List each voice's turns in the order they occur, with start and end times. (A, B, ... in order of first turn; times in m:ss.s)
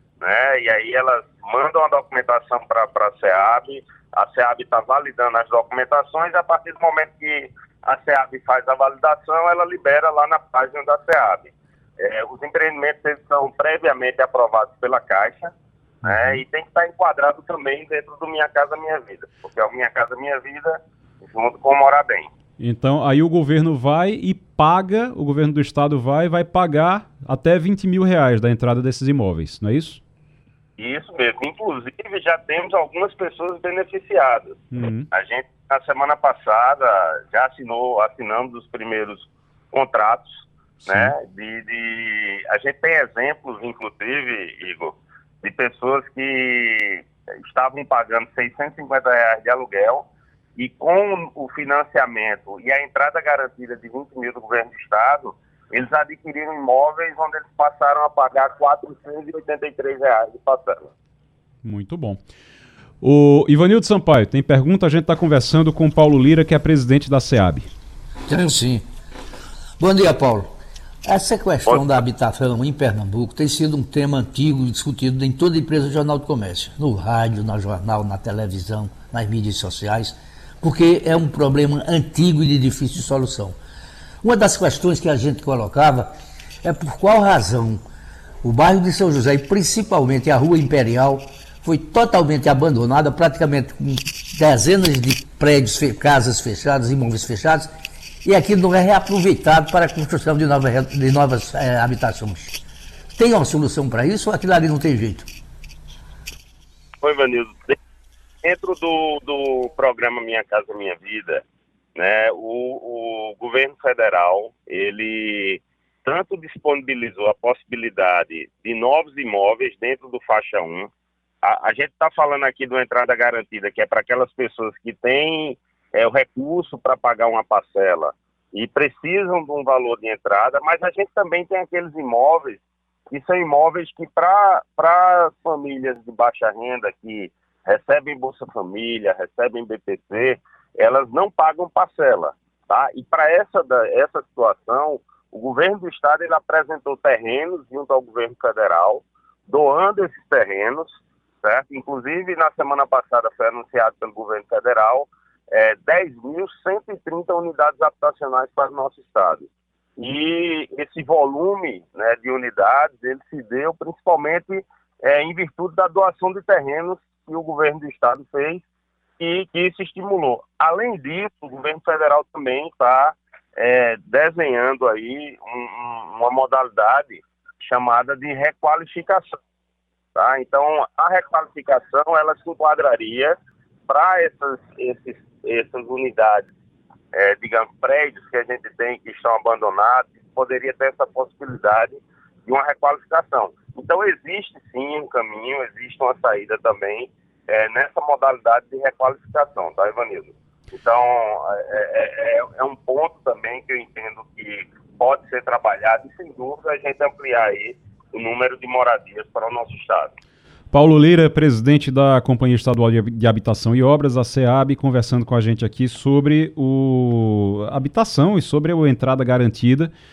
0:00.2-0:22.3 A
0:16.0-0:16.4 B
0:22.6-0:30.0 B
0:30.8-0:40.4 A
0:34.7-0:35.1 B
0:40.8-0:41.1 B
0:40.9-0:50.1 A
0:50.6-1:00.9 A
1:01.6-1:02.2 B
1:03.0-1:07.7 B
1:08.3-1:08.8 C
1:09.8-1:10.5 C
1:11.0-1:23.6 C
1:24.2-1:26.1 C
1:26.6-1:27.8 C
1:28.4-1:37.7 C
1:38.2-1:42.6 C
1:43.2-1:45.3 C
1:47.0-1:47.8 A
1:48.4-1:51.4 A
1:52.0-2:00.9 A
2:01.4-2:30.9 A
2:31.4-2:48.6 A
2:49.2-2:59.4 A
3:00.2-3:03.4 A
3:03.9-3:06.5 A
3:07.1-3:12.0 A
3:12.5-3:30.1 A
3:30.7-3:39.9 B